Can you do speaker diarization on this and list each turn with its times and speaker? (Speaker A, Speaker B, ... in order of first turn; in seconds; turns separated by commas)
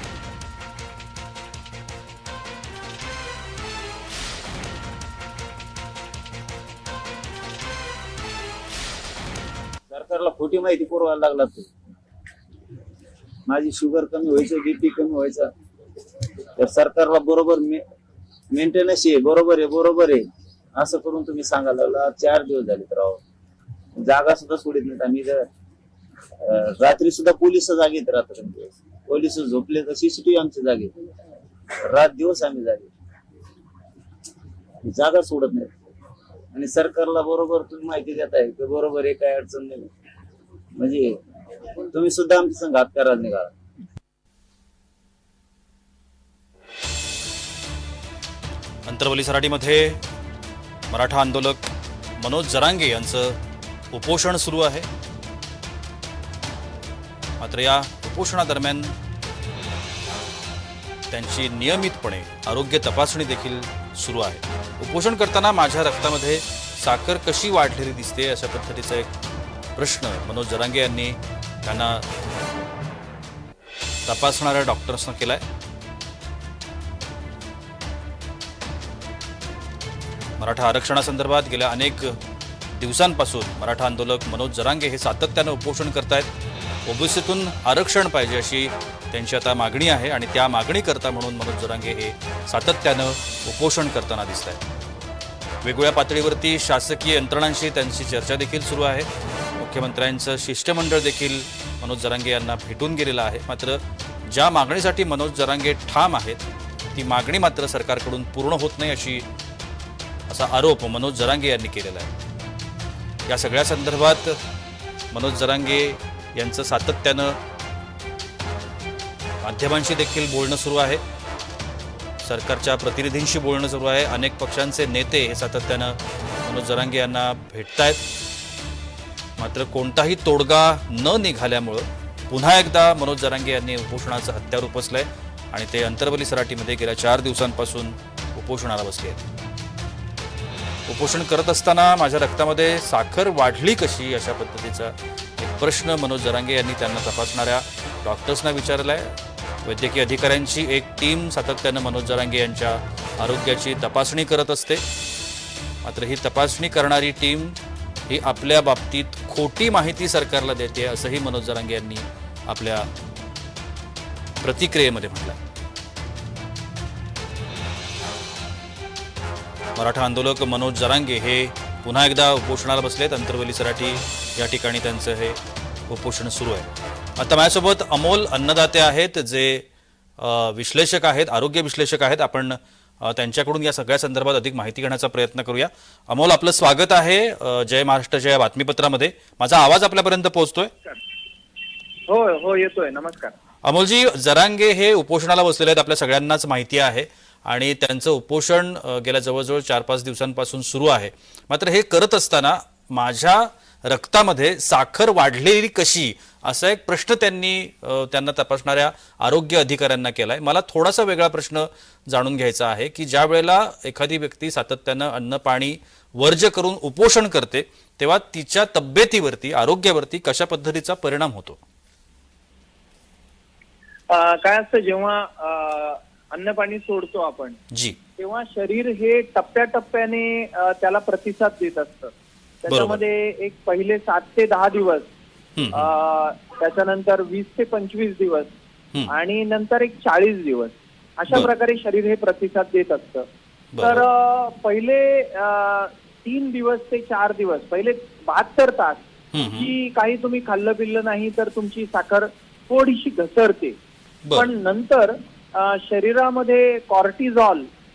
Speaker A: 9.9-11.7, Speaker A: 13.5-15.5, Speaker A: 16.6-17.8, Speaker A: 18.5-20.2, Speaker A: 20.8-23.2, Speaker A: 23.9-25.5, Speaker A: 26.4-30.9, Speaker A: 31.8-32.9, Speaker A: 34.8-35.7, Speaker A: 36.5-39.9, Speaker A: 40.8-41.2, Speaker A: 41.8-43.5, Speaker B: 48.9-50.0, Speaker B: 50.9-51.7, Speaker B: 52.2-53.4, Speaker B: 53.9-54.9, Speaker B: 57.4-58.9, Speaker B: 61.1-69.1, Speaker B: 69.8-72.0, Speaker B: 74.0-75.4, Speaker B: 80.4-82.2, Speaker B: 82.7-86.3, Speaker B: 86.8-94.6, Speaker B: 95.6-106.4, Speaker B: 106.9-109.2, Speaker B: 110.3-112.1, Speaker B: 113.3-114.4, Speaker B: 115.1-117.4, Speaker B: 119.4-121.0, Speaker B: 122.2-128.0, Speaker B: 129.4-139.2, Speaker B: 140.9-154.8, Speaker B: 155.8-157.6, Speaker B: 158.1-162.9, Speaker B: 164.4-165.4, Speaker B: 169.8-179.7, Speaker B: 180.2-190.7, Speaker C: 192.1-193.3, Speaker B: 193.6-221.6, Speaker C: 224.1-227.6, Speaker B: 227.7-227.9, Speaker C: 228.2-232.1, Speaker C: 232.6-235.1, Speaker B: 232.7-233.0, Speaker B: 235.6-235.9, Speaker C: 235.7-238.5, Speaker C: 239.1-243.2, Speaker B: 243.7-244.0, Speaker C: 243.8-249.0, Speaker B: 249.3-249.7, Speaker C: 249.5-253.8, Speaker C: 254.3-257.7